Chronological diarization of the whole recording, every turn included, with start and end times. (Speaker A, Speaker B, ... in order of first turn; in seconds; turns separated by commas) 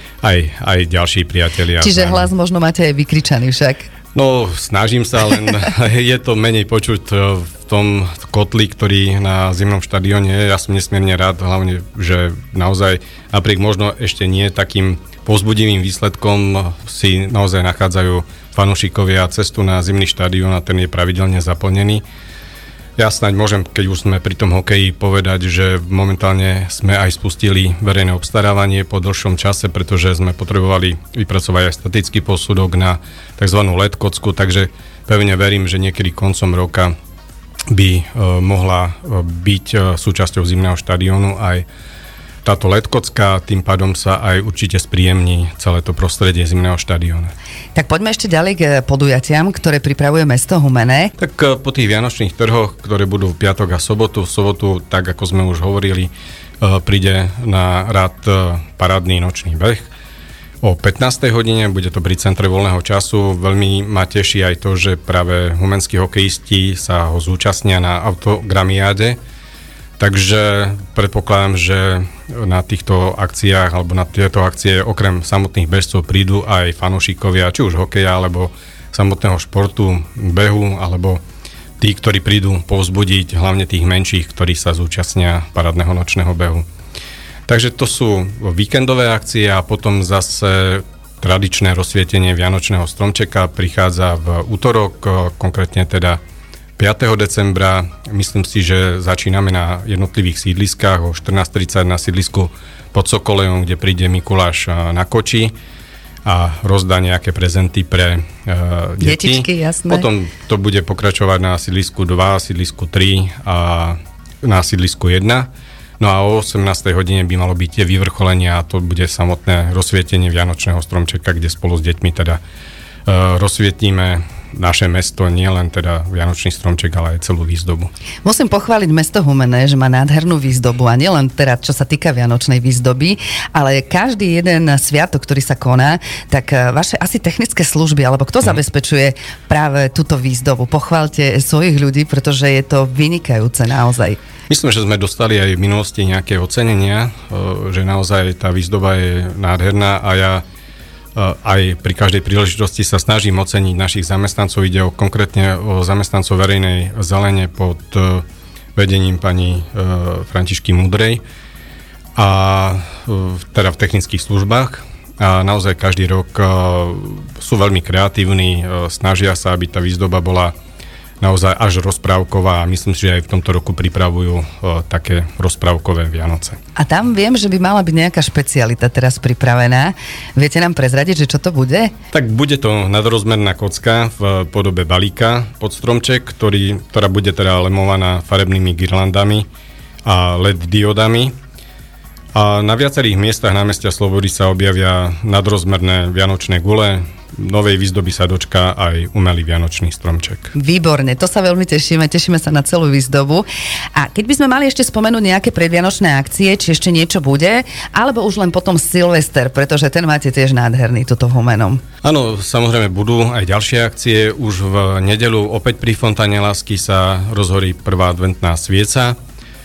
Speaker A: 0.2-2.3, Speaker B: 1.8-3.9, Speaker A: 4.2-22.0, Speaker A: 23.0-36.9, Speaker A: 37.7-41.6, Speaker A: 42.4-47.3, Speaker B: 47.7-51.1, Speaker A: 51.2-59.9, Speaker A: 60.6-69.2, Speaker A: 70.0-81.2, Speaker A: 81.8-86.7, Speaker A: 87.5-96.2, Speaker A: 96.8-105.5, Speaker A: 106.3-115.5, Speaker B: 109.0-110.1, Speaker A: 116.0-122.4, Speaker A: 123.1-127.9, Speaker B: 128.2-144.2, Speaker A: 144.5-150.4, Speaker A: 151.2-158.2, Speaker A: 158.8-161.2, Speaker A: 162.2-170.5, Speaker A: 171.2-176.6, Speaker B: 176.8-181.9, Speaker A: 182.1-189.5, Speaker A: 190.1-191.3, Speaker A: 192.3-200.5, Speaker B: 200.6-211.8, Speaker A: 212.0-219.2